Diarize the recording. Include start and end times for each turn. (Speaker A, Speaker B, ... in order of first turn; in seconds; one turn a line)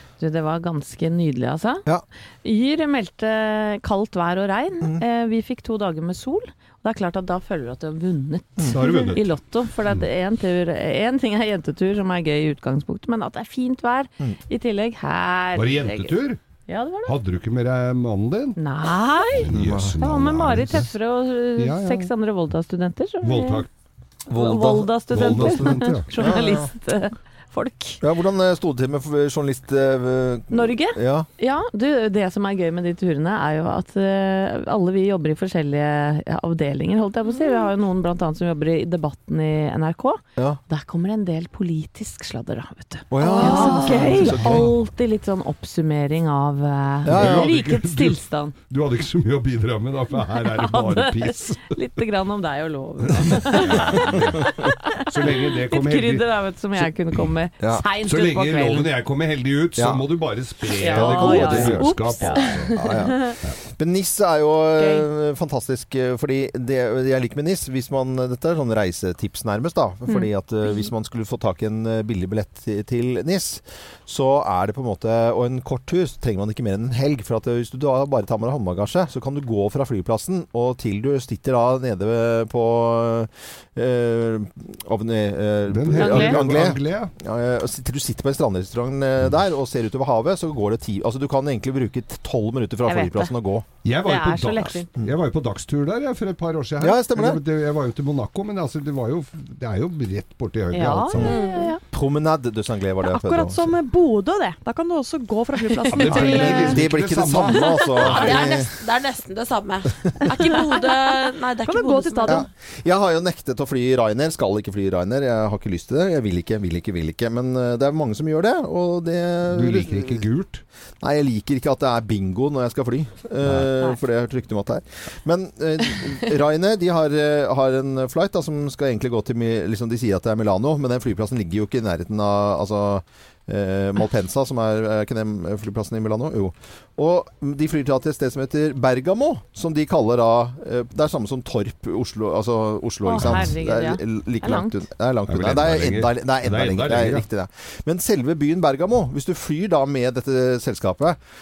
Speaker A: 0.2-1.8
Speaker A: 2.4-16.1
Speaker B: 8.7-9.3
Speaker B: 15.6-16.4
Speaker A: 16.7-17.2
Speaker B: 17.1-18.6
Speaker A: 18.6-23.7
Speaker B: 19.4-20.9
Speaker C: 19.5-20.7
Speaker B: 21.6-22.1
Speaker B: 23.2-23.7
Speaker C: 24.3-26.7
Speaker A: 24.3-28.0
Speaker B: 25.1-26.3
Speaker C: 28.0-31.3
Speaker A: 30.5-48.5
Speaker C: 43.1-44.7
Speaker D: 43.2-44.3
Speaker B: 44.3-44.7
Speaker C: 47.0-47.5
Speaker B: 47.1-51.8
Speaker A: 50.5-58.9
Speaker B: 53.1-54.5
Speaker C: 53.5-54.2
Speaker B: 55.1-56.2
Speaker B: 58.0-63.6
Speaker C: 59.8-60.0
Speaker A: 60.7-63.2
Speaker C: 60.8-93.7
Speaker A: 64.8-65.0
Speaker A: 70.1-70.9
Speaker B: 85.7-87.1
Speaker A: 85.9-86.4
Speaker A: 92.8-93.3
Speaker B: 93.8-101.3
Speaker A: 94.0-94.9
Speaker C: 96.8-97.4
Speaker A: 100.7-101.8
Speaker C: 101.2-103.7
Speaker D: 101.2-101.8
Speaker E: 103.0-106.8
Speaker B: 105.9-108.5
Speaker C: 106.0-108.7
Speaker D: 108.0-112.5
Speaker E: 111.6-112.5
Speaker C: 112.3-120.3
Speaker B: 119.5-120.6
Speaker C: 121.0-151.2
Speaker A: 143.1-144.8
Speaker B: 143.2-143.6
Speaker B: 145.3-147.3